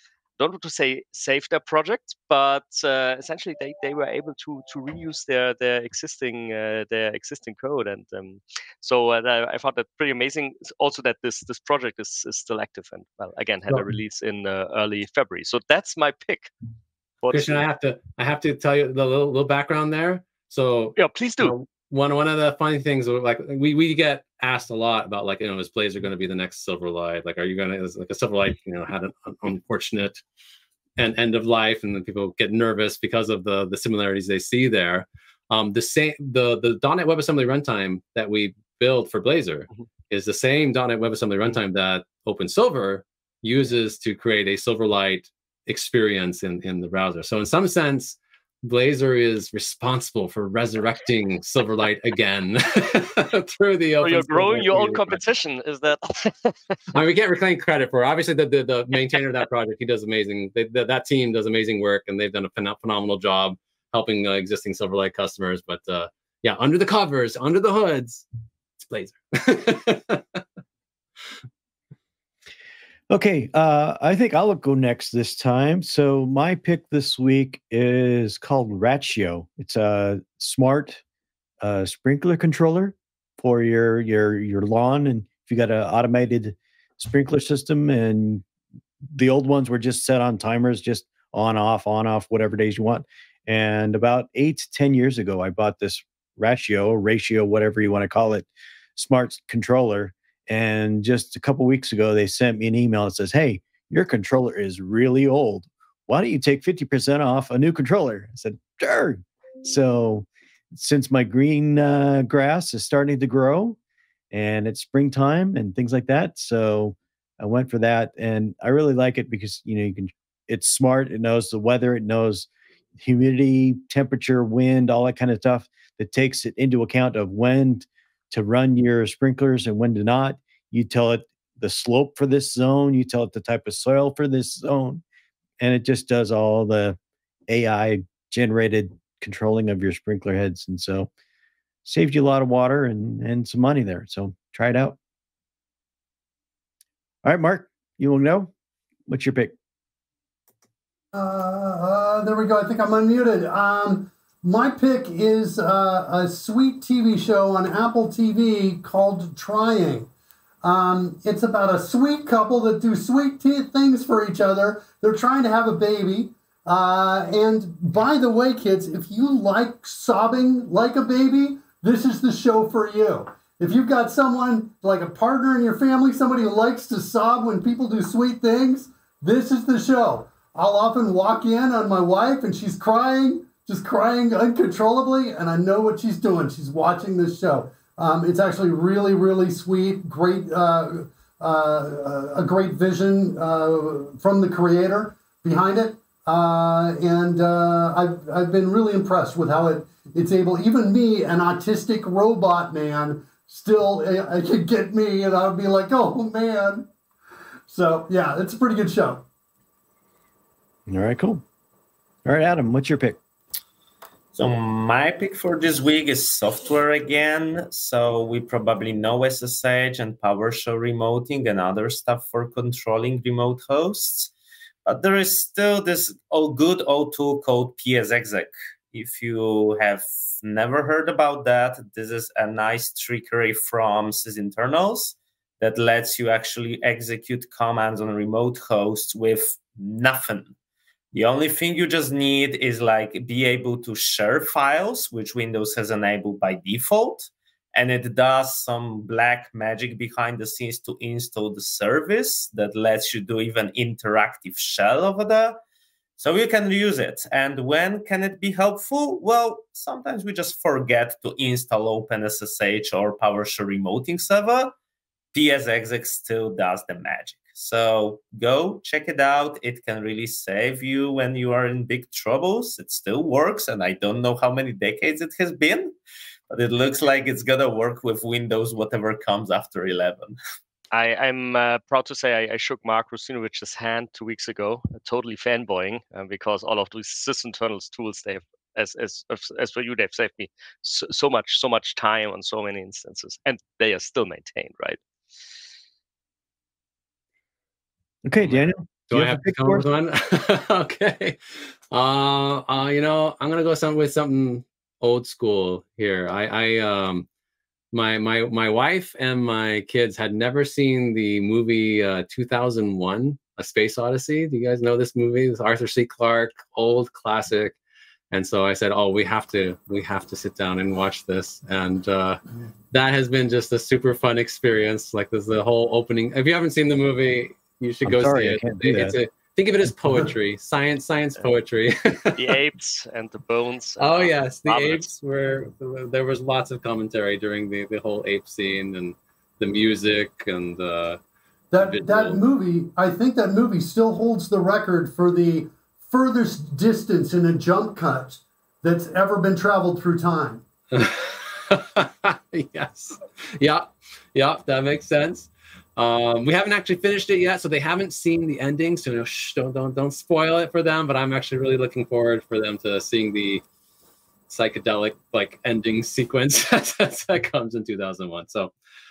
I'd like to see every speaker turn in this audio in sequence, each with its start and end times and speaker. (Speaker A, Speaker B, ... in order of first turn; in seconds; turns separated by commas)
Speaker A: 0.4-16.5, Speaker A: 17.2-17.6, Speaker B: 17.3-30.2, Speaker A: 21.0-21.5, Speaker B: 31.0-55.2, Speaker A: 54.0-56.5, Speaker B: 56.9-68.2, Speaker B: 68.8-70.4, Speaker C: 73.1-81.0, Speaker C: 81.6-88.4, Speaker C: 89.1-113.8, Speaker C: 114.3-135.0, Speaker C: 135.6-137.0, Speaker C: 137.5-141.1, Speaker C: 141.8-145.0, Speaker C: 147.2-148.5, Speaker C: 149.1-149.5, Speaker D: 151.1-160.1, Speaker D: 160.6-206.9, Speaker D: 207.7-209.2, Speaker C: 210.9-211.4, Speaker C: 212.2-213.2, Speaker E: 214.3-224.3, Speaker E: 224.8-240.5, Speaker E: 241.1-255.6, Speaker E: 256.2-264.7, Speaker E: 265.3-275.9, Speaker E: 276.5-280.4, Speaker A: 280.9-295.0, Speaker C: 298.2-299.8, Speaker B: 298.4-307.2, Speaker B: 307.9-317.8, Speaker B: 318.3-332.6, Speaker C: 328.0-329.2, Speaker A: 332.4-335.1, Speaker B: 334.0-341.2, Speaker D: 341.7-350.6, Speaker B: 341.8-342.4, Speaker B: 350.9-363.6, Speaker B: 364.5-368.7